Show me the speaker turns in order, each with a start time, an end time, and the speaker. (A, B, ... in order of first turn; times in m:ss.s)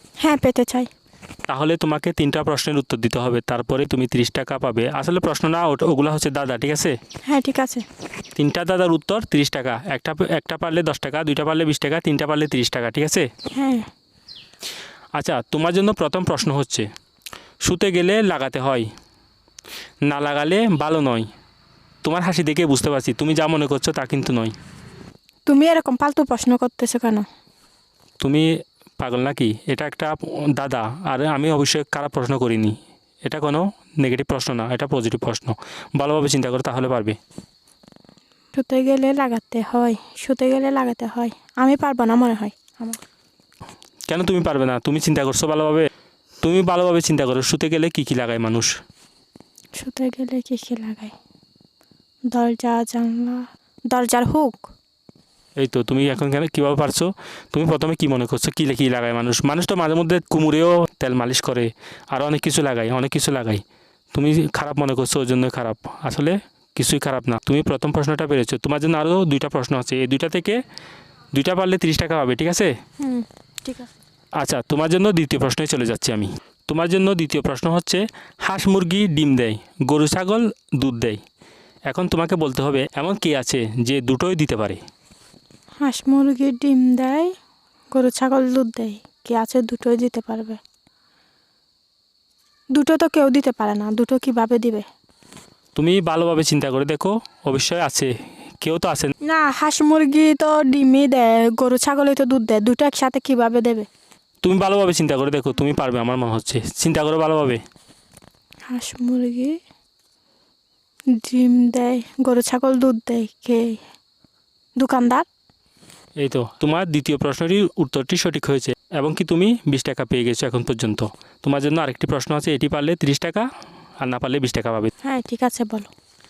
0:00.2-0:00.9 A
0:01.5-0:07.0 B
0:07.3-0:07.8 A
0:08.4-0:13.3 B
0:13.5-0:13.9 A
0:15.2-0:16.8 B
0:17.6-0:18.9 B
0:20.1-0:21.3 B
0:22.0-0:24.5 B
0:25.4-0:27.2 A
0:28.2-0:28.5 B
0:29.0-0:37.2 B
0:38.5-0:43.0 A
0:44.1-0:45.9 B
0:46.4-0:48.7 B
0:49.8-0:51.1 A
0:52.3-0:54.6 A
0:55.6-1:03.6 B
1:04.1-1:10.6 B
1:11.3-1:12.7 B
1:13.0-1:13.9 A
1:14.4-1:21.2 B
1:21.9-1:24.8 B
1:25.8-1:27.3 A
1:27.9-1:30.6 A
1:32.7-1:34.8 A
1:35.8-1:38.1 B
1:38.6-1:39.1 B
1:39.2-1:43.9 A
1:44.4-1:47.6 B
1:48.7-1:49.6 A
1:51.2-1:53.8 A
1:54.8-1:55.2 A
1:56.2-2:03.5 B
2:04.0-2:04.9 B
2:05.0-2:05.9 A